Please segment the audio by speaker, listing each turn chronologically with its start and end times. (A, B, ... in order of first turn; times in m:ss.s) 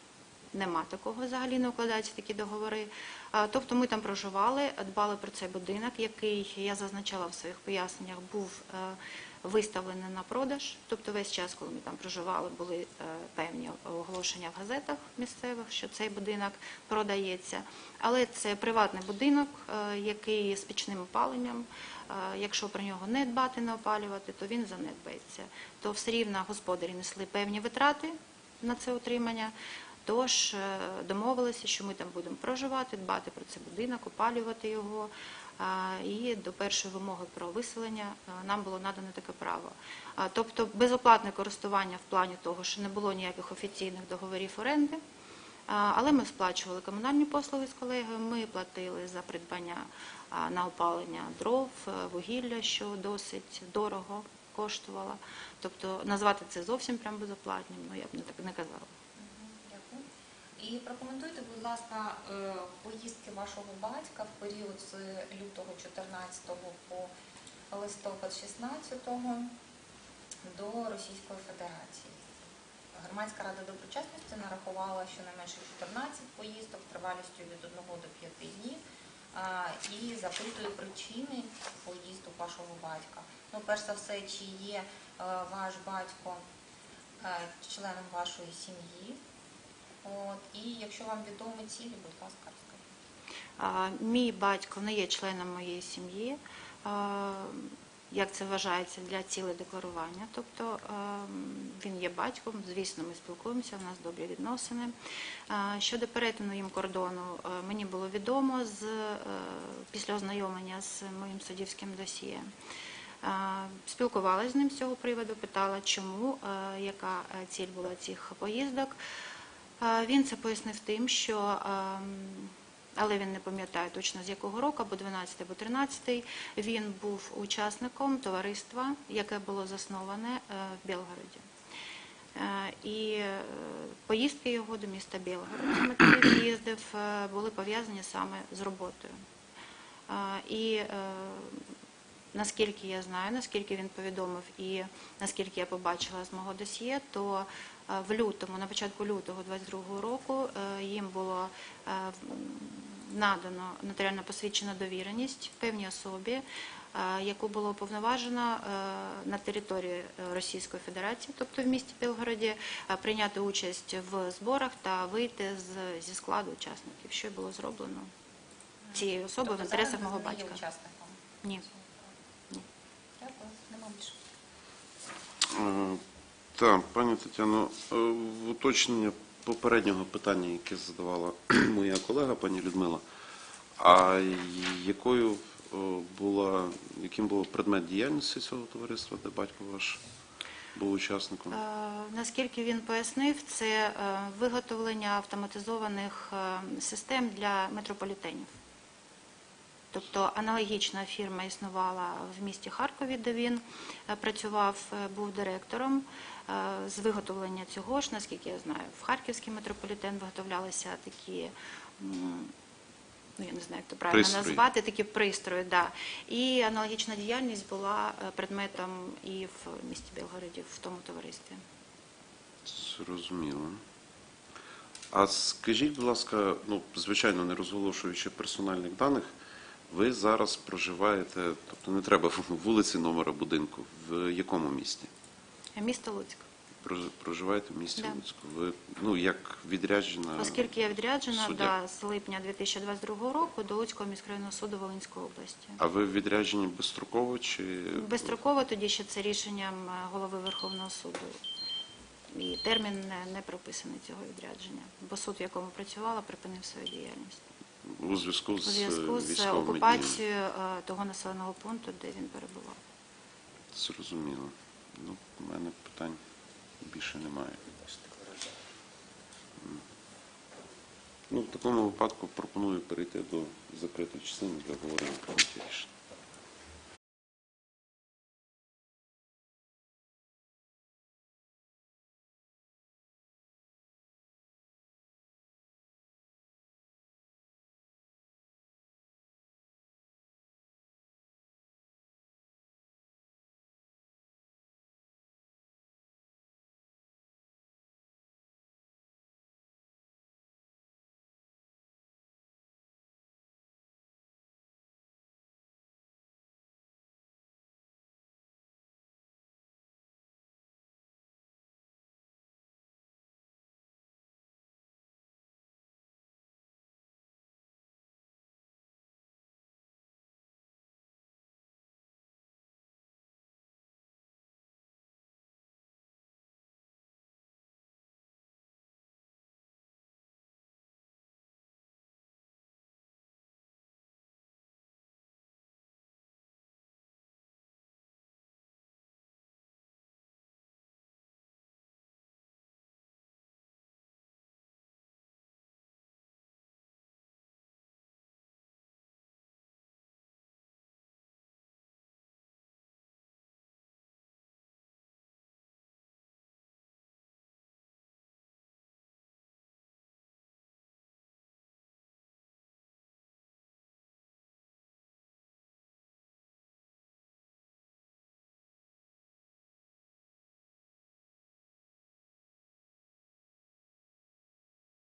0:00.5-0:29.5 A
0:30.0-0:45.0 A
0:45.7-0:58.9 A
0:59.2-1:00.1 B
1:00.6-1:07.1 B
1:07.7-1:09.6 B
1:10.4-1:18.8 B
1:19.3-1:26.4 B
1:27.2-1:29.2 B
1:30.0-1:32.9 B
1:33.6-1:44.9 A
1:45.5-1:52.5 A
1:53.2-1:59.0 A
1:59.8-2:11.5 A
2:12.4-2:19.2 A
2:20.1-2:21.7 A
2:22.3-2:48.1 A
2:48.8-2:52.2 B
2:48.9-2:50.6 A
2:53.2-2:54.2 B
2:55.4-2:56.0 C
2:56.6-3:03.0 C
3:03.8-3:10.0 C
3:10.7-3:11.6 C
3:11.5-3:18.6 A
3:19.9-3:32.5 A
3:33.4-3:41.6 A
3:34.1-3:34.6 C
3:42.7-3:43.8 C
3:45.1-3:49.3 C
3:49.9-3:55.1 C
3:55.8-3:56.5 A
3:56.8-4:01.7 C
4:00.4-4:05.8 A
4:05.8-4:08.4 C
4:08.0-4:11.4 A
4:12.3-4:17.4 A
4:17.8-4:20.2 C
4:18.6-4:22.8 A
4:23.7-4:26.2 C
4:26.8-4:27.7 C
4:31.3-4:35.9 C